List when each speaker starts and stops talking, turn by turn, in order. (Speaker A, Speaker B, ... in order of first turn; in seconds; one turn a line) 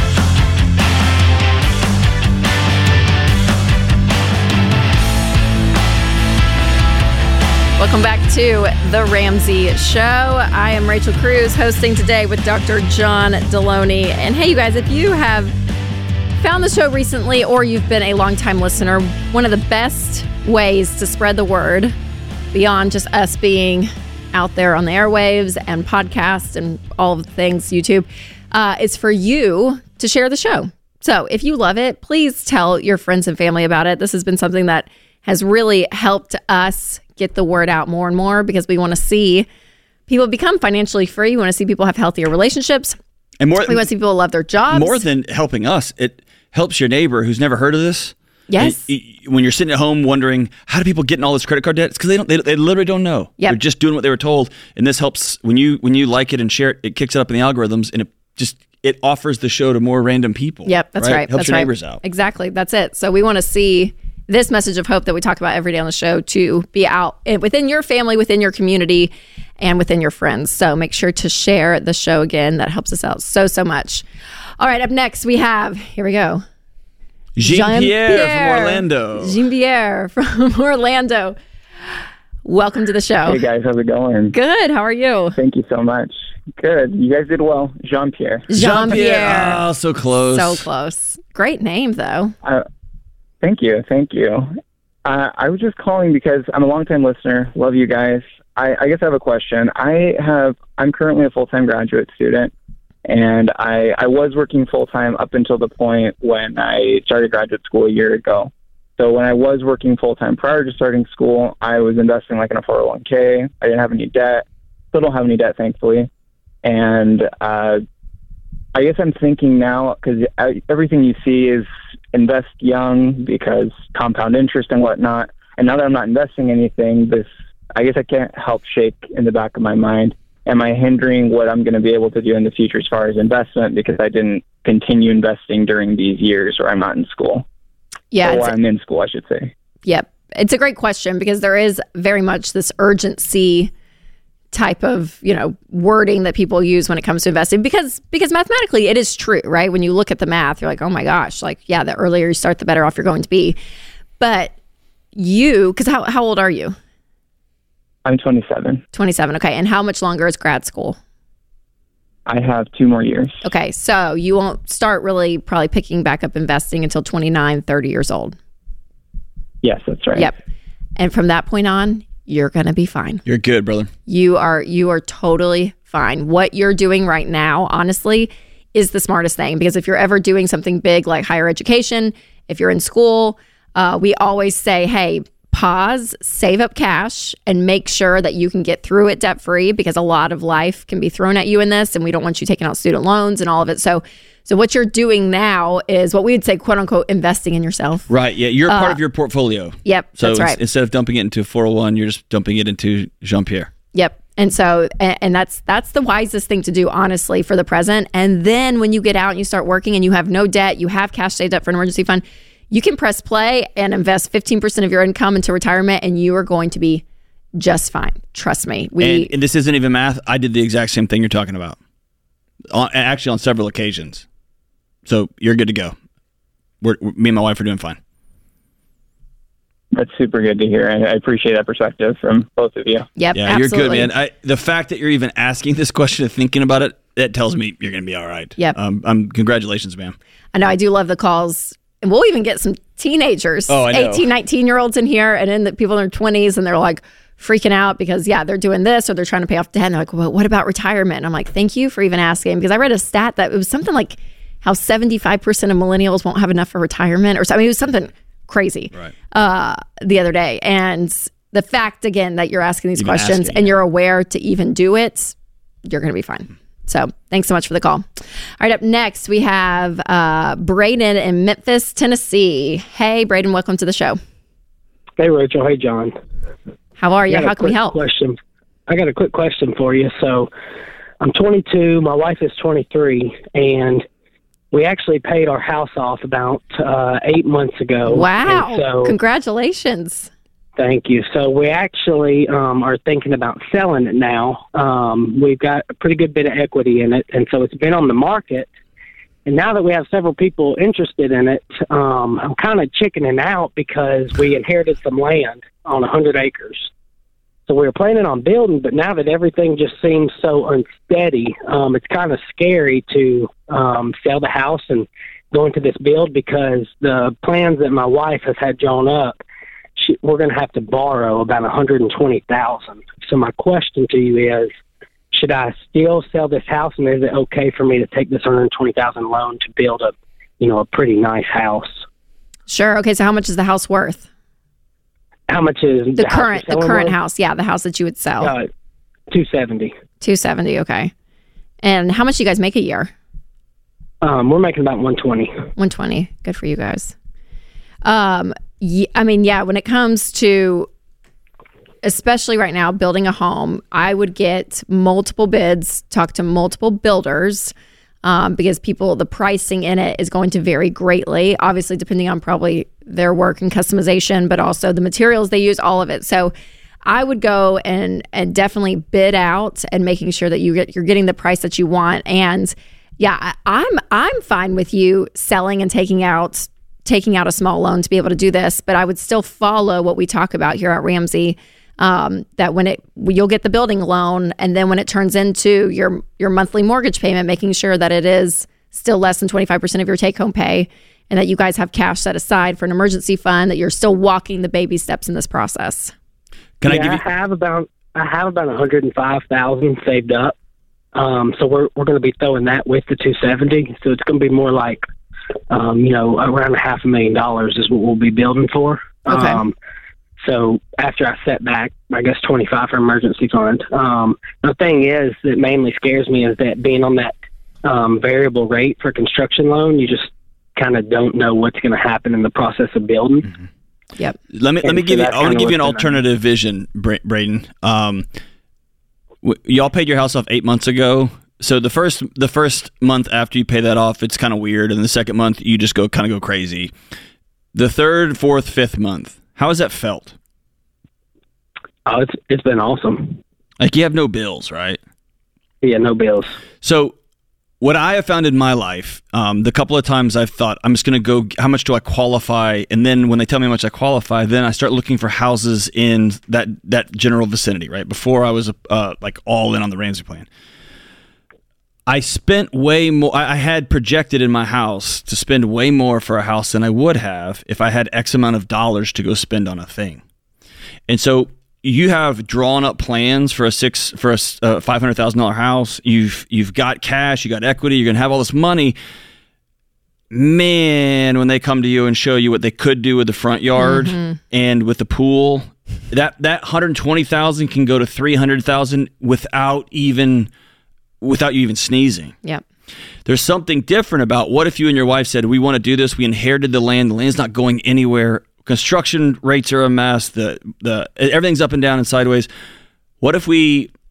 Speaker A: 7.8-15.6
Speaker A: 16.4-21.9
Speaker A: 22.5-39.5
Speaker A: 40.1-43.0
Speaker B: 43.4-43.9
Speaker A: 43.6-45.0
Speaker B: 44.7-62.0
Speaker A: 48.5-48.9
Speaker A: 60.7-74.0
Speaker A: 74.6-76.4
Speaker B: 77.4-79.4
Speaker A: 77.4-83.4
Speaker C: 83.3-84.3
Speaker A: 84.3-85.4
Speaker C: 85.4-88.5
Speaker A: 88.5-89.6
Speaker B: 88.5-90.7
Speaker A: 90.2-92.3
Speaker C: 93.4-94.5
Speaker C: 95.0-102.5
Speaker C: 103.1-116.1
Speaker C: 116.6-117.8
Speaker C: 118.8-137.4
Speaker A: 138.1-138.6
Speaker C: 138.2-139.5
Speaker A: 139.8-143.7
Speaker A: 144.5-153.6
Speaker A: 154.2-154.6
Speaker A: 155.2-156.8
Speaker C: 158.1-158.8
Speaker A: 158.9-161.0
Speaker C: 162.3-163.4
Speaker A: 163.4-168.4
Speaker C: 169.6-170.3
Speaker A: 171.0-173.2
Speaker B: 173.3-173.9
Speaker A: 174.1-198.1
Speaker B: 198.1-203.7
Speaker A: 198.7-199.0
Speaker A: 199.8-200.6
Speaker A: 203.9-217.0
Speaker A: 217.6-219.3
Speaker B: 219.0-221.8
Speaker B: 222.7-224.2
Speaker B: 225.1-225.9
Speaker B: 226.8-228.0
Speaker C: 229.9-233.1
Speaker A: 233.2-234.1
Speaker B: 233.3-240.2
Speaker A: 240.5-265.3
Speaker B: 243.7-244.3
Speaker B: 263.0-263.7
Speaker A: 265.9-274.2
Speaker D: 275.2-276.1
Speaker A: 277.0-278.0
Speaker D: 277.3-278.4
Speaker D: 278.9-280.5
Speaker D: 281.2-284.1
Speaker D: 284.7-289.2
Speaker A: 288.1-290.3
Speaker D: 290.8-298.7
Speaker D: 299.5-306.9
Speaker D: 307.7-319.4
Speaker D: 320.0-324.7
Speaker D: 325.3-332.1
Speaker A: 332.7-334.3
Speaker D: 335.5-337.2
Speaker A: 336.2-338.5
Speaker D: 338.4-338.7
Speaker D: 339.3-339.9
Speaker A: 340.2-341.1
Speaker A: 341.8-343.1
Speaker D: 344.2-345.5
Speaker A: 345.8-347.1
Speaker A: 348.0-350.9
Speaker A: 352.0-357.7
Speaker A: 358.2-366.5
Speaker A: 367.1-396.1
Speaker B: 396.8-397.2
Speaker D: 396.8-400.6
Speaker D: 401.1-405.0
Speaker D: 405.7-409.8
Speaker A: 409.3-409.6
Speaker D: 410.4-423.5
Speaker B: 424.5-428.3
Speaker D: 424.8-426.2
Speaker B: 429.4-436.9
Speaker B: 437.7-440.4
Speaker D: 442.1-443.4
Speaker B: 443.8-445.0
Speaker D: 445.8-446.6
Speaker B: 446.8-447.1
Speaker B: 447.8-460.5
Speaker B: 462.1-470.2
Speaker B: 471.1-479.0
Speaker B: 480.3-490.5
Speaker A: 483.8-484.4
Speaker B: 491.2-492.4
Speaker B: 493.2-502.5
Speaker B: 503.2-503.9